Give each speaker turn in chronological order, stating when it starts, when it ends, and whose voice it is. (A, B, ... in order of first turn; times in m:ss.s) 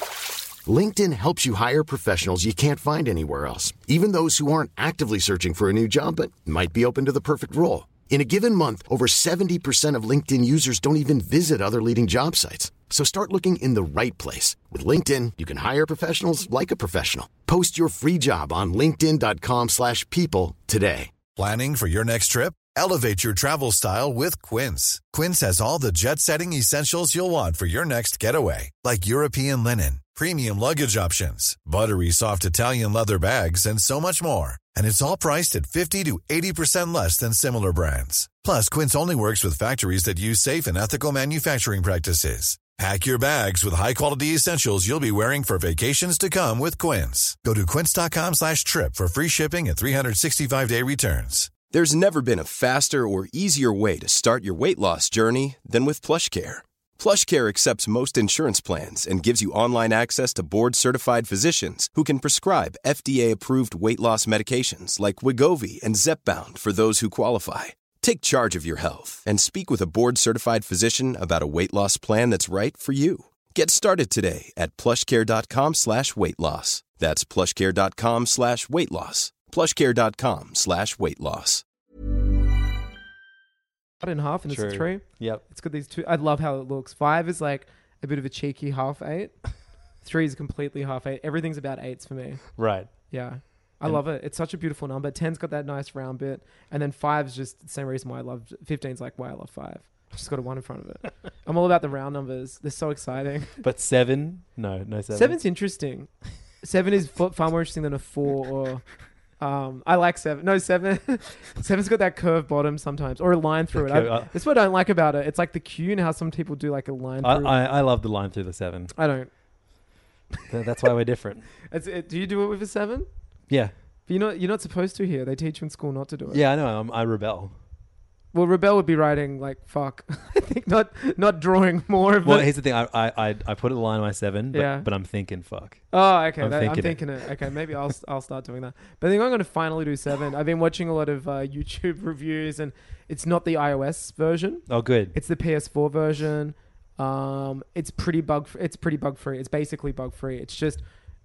0:00.6-0:21.2 A
0:21.4-0:51.6 B
0:51.7-1:21.6 C
1:24.0-1:29.4 D
1:24.5-1:25.4 E
1:30.0-1:32.4 D
1:32.6-1:32.9 E
1:33.1-1:43.6 D
1:43.6-1:45.4 E
1:45.1-1:46.1 D
1:46.6-1:48.8 D
1:49.4-1:57.6 D
1:53.7-1:54.3 E
1:57.2-1:58.9 E
1:58.9-1:59.3 D
2:00.5-2:01.5 E
2:01.7-2:03.1 D
2:04.1-2:06.4 D
2:06.3-2:07.6 E
2:08.3-2:12.5 D
2:12.2-2:15.8 E
2:14.5-2:14.9 D
2:15.9-2:30.8 D
2:16.4-2:17.5 E
2:24.7-2:25.2 E